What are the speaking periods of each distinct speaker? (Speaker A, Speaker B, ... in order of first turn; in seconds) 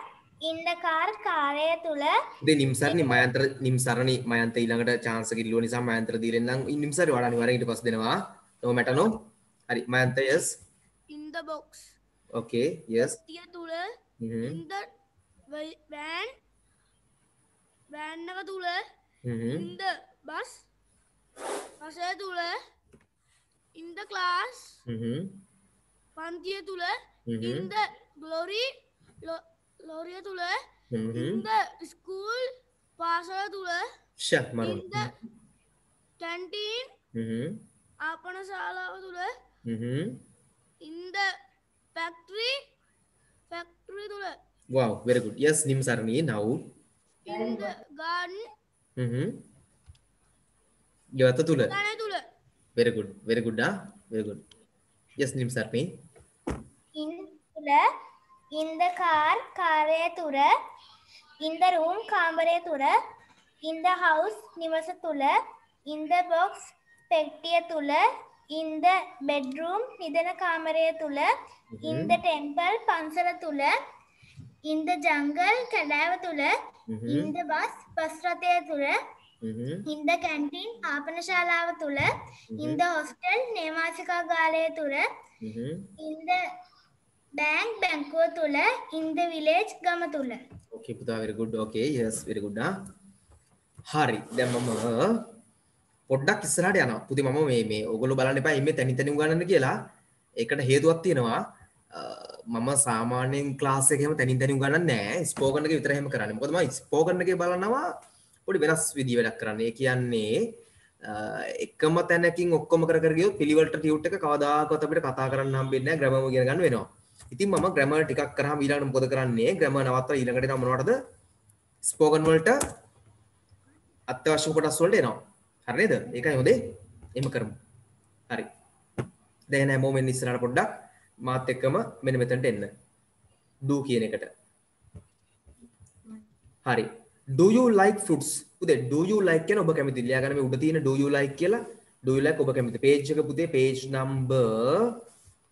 Speaker A: 0.4-2.2, 56.9-57.8, 58.5-60.5, 61.4-63.0, 63.6-71.3, 71.8-73.7, 74.6-76.5, 77.1-79.0, 79.9-82.1, 82.6-85.0, 86.0-86.4, 87.3-90.4
Speaker B: 2.4-10.5, 12.3-13.2, 14.2-14.6, 19.2-19.7, 24.9-25.4, 27.3-27.7, 30.9-31.4, 34.2-35.1, 37.1-37.6, 39.6-40.2, 44.7-46.7, 49.0-49.4, 51.1-51.8, 52.8-54.4, 55.2-55.9, 71.7-72.2, 76.9-77.3, 79.4-79.9, 82.5-82.8, 85.4-85.9, 90.7-92.7, 93.9-95.3, 96.1-99.8, 100.4-101.4, 101.9-107.9, 108.5-110.5, 111.0-121.0, 121.8-122.6, 124.1-126.6, 127.2-127.5, 129.5-130.7, 131.2-132.7, 133.6-134.3, 136.7-144.9
Speaker C: 11.1-12.0, 13.2-14.9, 15.5-16.4, 17.9-18.9, 19.5-20.7, 21.8-22.6, 23.8-24.8, 26.2-30.6, 31.1-33.9, 34.6-35.1, 36.2-36.9, 38.0-39.4, 40.8-41.3, 42.0-42.6, 43.5-44.4, 47.2-48.5, 51.6-52.3